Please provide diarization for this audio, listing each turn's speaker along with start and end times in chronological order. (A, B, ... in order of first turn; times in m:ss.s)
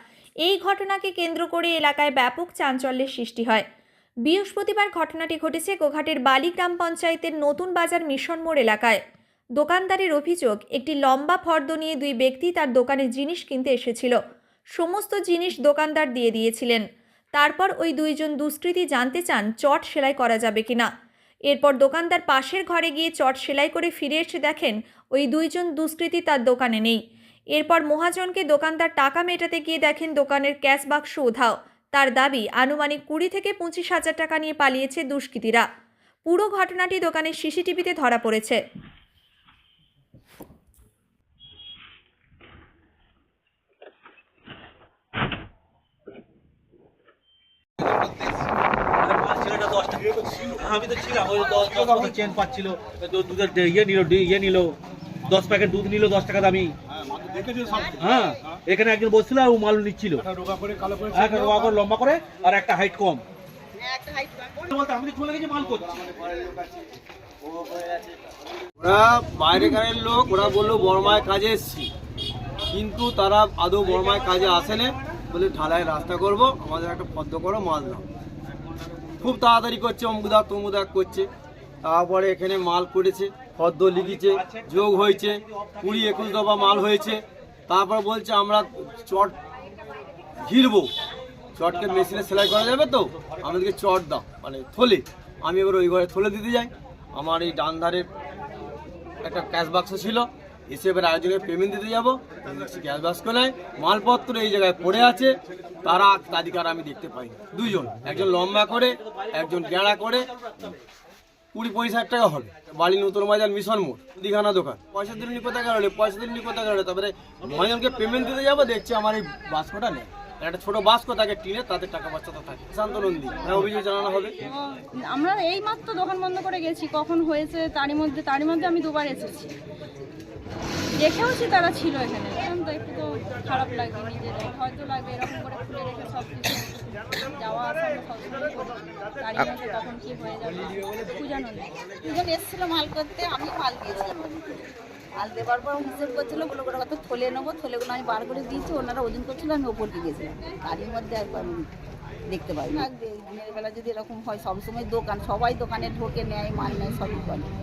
0:00.4-0:03.6 A
0:04.3-0:09.0 A
0:09.6-0:14.2 A
0:14.8-0:16.8 A
0:17.4-0:20.9 A
0:21.5-0:27.0 A
0:27.6-0:35.6 A
0:36.3-0:38.6 A
0:49.0-0:54.8 B
0:55.3-0:56.7 B
0:57.2-1:00.2 B
1:01.1-1:03.2 B
1:03.9-1:04.5 C
1:04.7-1:06.3 B
1:08.8-1:11.9 D
1:12.7-1:18.1 D
1:19.2-1:21.3 D
1:21.8-1:29.4 D
1:30.5-1:30.9 D
1:31.6-1:38.1 D
1:39.2-1:45.3 D
1:45.8-1:50.3 D
1:51.5-2:04.4 D
2:04.5-2:09.6 E
2:11.0-2:21.8 E
2:22.0-2:24.6 C
2:25.2-2:31.7 C
2:32.3-2:37.5 C